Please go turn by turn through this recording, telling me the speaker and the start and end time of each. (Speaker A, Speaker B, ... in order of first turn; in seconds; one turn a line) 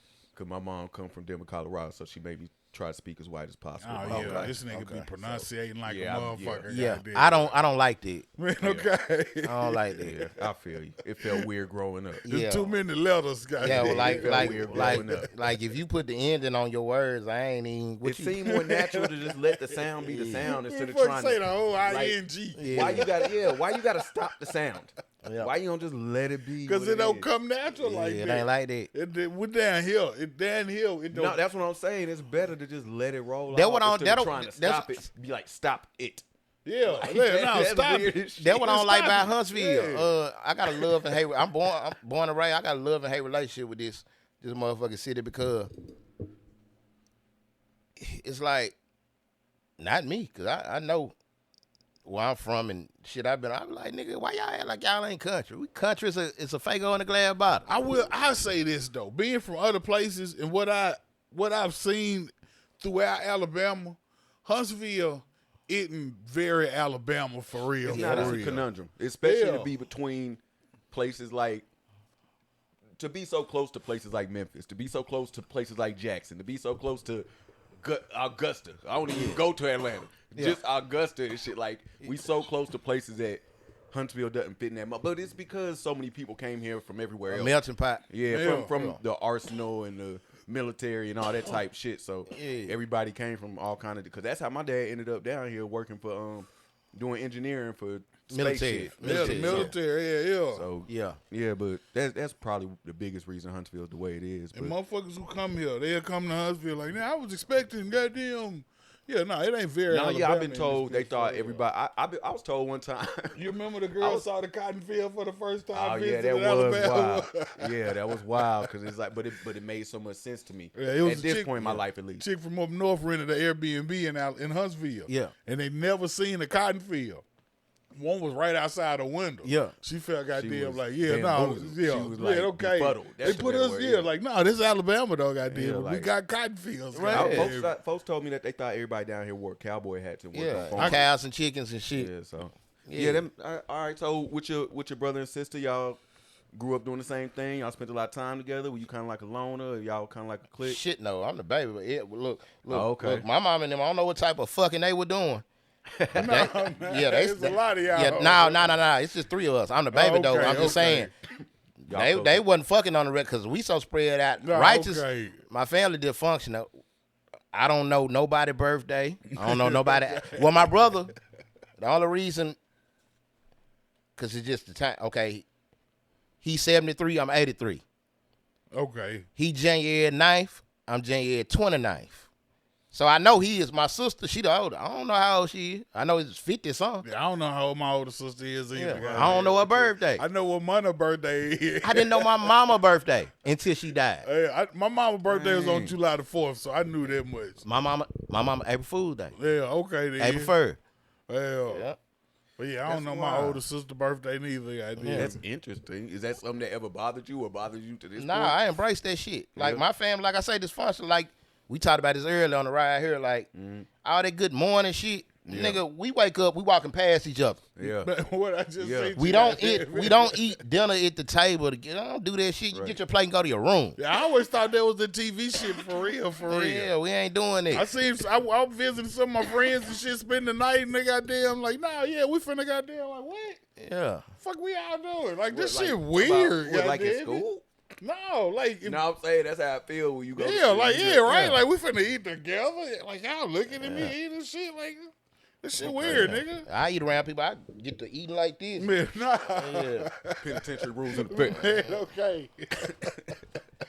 Speaker A: 0.3-4.6
Speaker B: 3.8-7.6
Speaker C: 4.0-5.2
Speaker A: 5.2-6.8
Speaker C: 6.7-8.3
Speaker B: 8.4-10.3
Speaker A: 8.6-8.9
Speaker C: 9.4-10.3
Speaker A: 10.1-12.2
Speaker B: 11.0-11.5
Speaker C: 12.2-12.8
Speaker B: 12.3-15.1
Speaker A: 13.6-15.3
Speaker C: 13.6-18.4
Speaker A: 18.0-22.2
Speaker B: 18.4-24.6
Speaker C: 20.1-20.5
Speaker C: 22.6-23.0
Speaker A: 22.7-27.3
Speaker C: 25.2-25.5
Speaker B: 26.6-31.4
Speaker C: 27.8-28.9
Speaker A: 31.1-36.3
Speaker C: 33.5-35.1
Speaker B: 36.6-40.1
Speaker A: 36.8-38.8
Speaker C: 38.3-45.7
Speaker A: 40.8-41.3
Speaker C: 48.0-48.8
Speaker C: 49.8-51.1
Speaker C: 52.0-57.7
Speaker B: 57.7-68.7
Speaker A: 67.8-71.7
Speaker C: 67.9-68.5
Speaker B: 69.2-69.7
Speaker A: 73.0-77.3
Speaker A: 77.8-87.6
Speaker C: 80.3-80.6
Speaker C: 87.3-88.1
Speaker A: 88.1-99.7
Speaker B: 88.2-89.0
Speaker C: 92.3-92.8
Speaker C: 98.3-99.7
Speaker B: 99.0-100.7
Speaker A: 100.5-104.8
Speaker C: 100.9-101.2
Speaker B: 104.5-111.6
Speaker A: 109.9-114.3
Speaker B: 113.3-118.7
Speaker A: 115.7-122.3
Speaker B: 120.7-127.2
Speaker C: 125.1-125.3
Speaker B: 127.9-137.8
Speaker C: 129.4-129.8
Speaker A: 130.3-134.1
Speaker A: 135.4-136.1
Speaker C: 136.9-137.5
Speaker A: 137.1-141.1
Speaker C: 140.3-142.1
Speaker B: 140.8-141.1
Speaker A: 142.0-146.0
Speaker C: 142.9-143.2
Speaker A: 146.5-150.8
Speaker C: 150.6-155.4
Speaker A: 152.7-153.3
Speaker B: 156.1-158.8
Speaker C: 156.2-161.1
Speaker B: 159.9-161.1
Speaker C: 161.8-166.7
Speaker A: 161.9-162.4
Speaker B: 164.4-165.4
Speaker C: 167.5-171.1
Speaker B: 169.4-170.7
Speaker C: 171.8-172.6
Speaker C: 174.2-175.5
Speaker C: 176.4-177.8
Speaker B: 178.7-179.3
Speaker C: 179.4-182.3
Speaker C: 182.9-187.1
Speaker B: 187.0-192.6
Speaker C: 188.7-190.2
Speaker A: 189.0-189.4
Speaker C: 191.8-194.3
Speaker B: 194.2-197.7
Speaker A: 195.2-196.0
Speaker C: 197.7-199.3
Speaker B: 199.4-200.6
Speaker C: 200.2-200.8
Speaker B: 201.3-201.9
Speaker C: 201.7-202.0
Speaker B: 202.6-205.4
Speaker A: 202.8-203.6
Speaker C: 205.0-205.3
Speaker A: 205.1-208.6
Speaker C: 208.2-217.7
Speaker A: 209.6-209.8
Speaker A: 213.5-213.9
Speaker A: 215.4-215.8
Speaker A: 217.8-218.1
Speaker B: 217.8-220.6
Speaker A: 218.8-219.2
Speaker C: 219.2-224.0
Speaker A: 222.7-223.0
Speaker B: 224.0-226.9
Speaker C: 226.5-227.9
Speaker B: 227.7-233.6
Speaker C: 233.8-234.3
Speaker B: 234.4-237.5
Speaker A: 235.5-237.6
Speaker B: 238.0-239.0
Speaker A: 238.8-241.4
Speaker B: 240.4-246.7
Speaker C: 241.3-241.6
Speaker C: 243.8-244.1
Speaker C: 245.8-249.0
Speaker B: 248.8-253.3
Speaker C: 249.6-250.1
Speaker A: 250.4-251.7
Speaker C: 251.6-252.0